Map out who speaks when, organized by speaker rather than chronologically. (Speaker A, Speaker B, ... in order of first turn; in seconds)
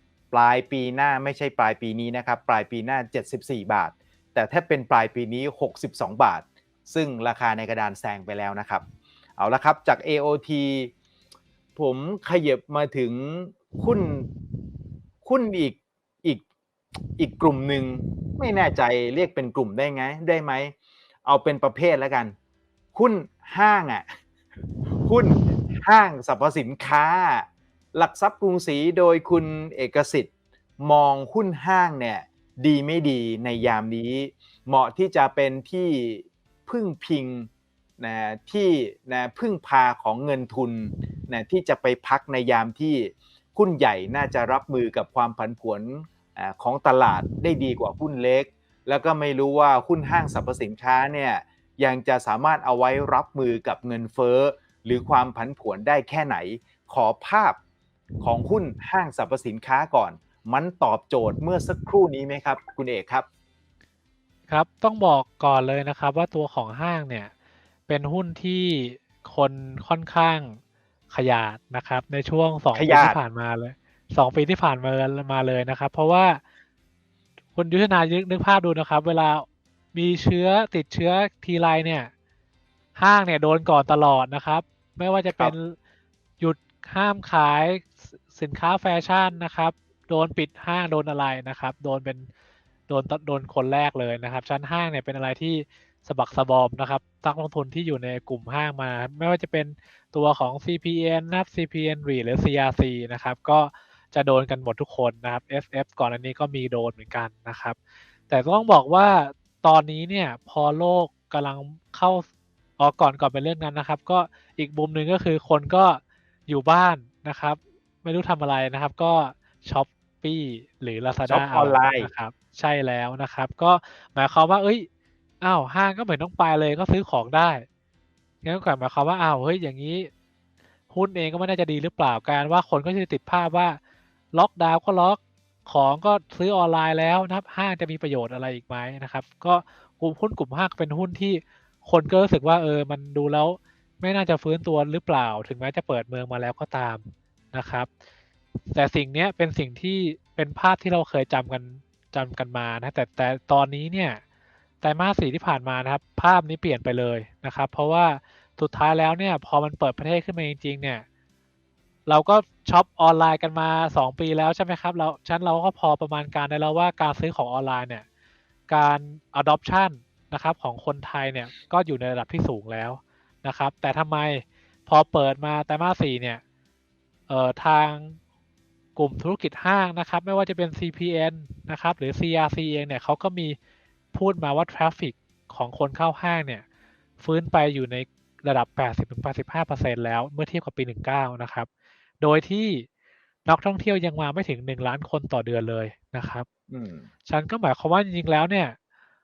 Speaker A: 0.3-8.8, 9.4-10.9, 11.8-14.3, 15.2-16.4, 17.2-20.7, 21.2-22.3, 22.9-24.1, 25.0-37.5, 38.0-57.6, 58.2-63.2, 72.7-73.2, 85.3-85.5, 121.2-122.1, 196.7-197.1
Speaker B: 64.5-67.3, 67.9-70.6, 71.1-76.4, 77.5-82.1, 83.0-85.8, 86.4-92.3, 92.9-107.8, 108.3-112.2, 112.8-124.9, 125.4-127.7, 128.4-130.1, 130.9-133.8, 134.3-147.9, 148.7-154.2, 154.8-161.0, 162.1-168.0, 168.7-176.4, 177.3-178.2, 178.9-183.6, 184.1-186.6, 187.2-191.7, 192.2-192.9, 193.4-196.5, 197.3-198.8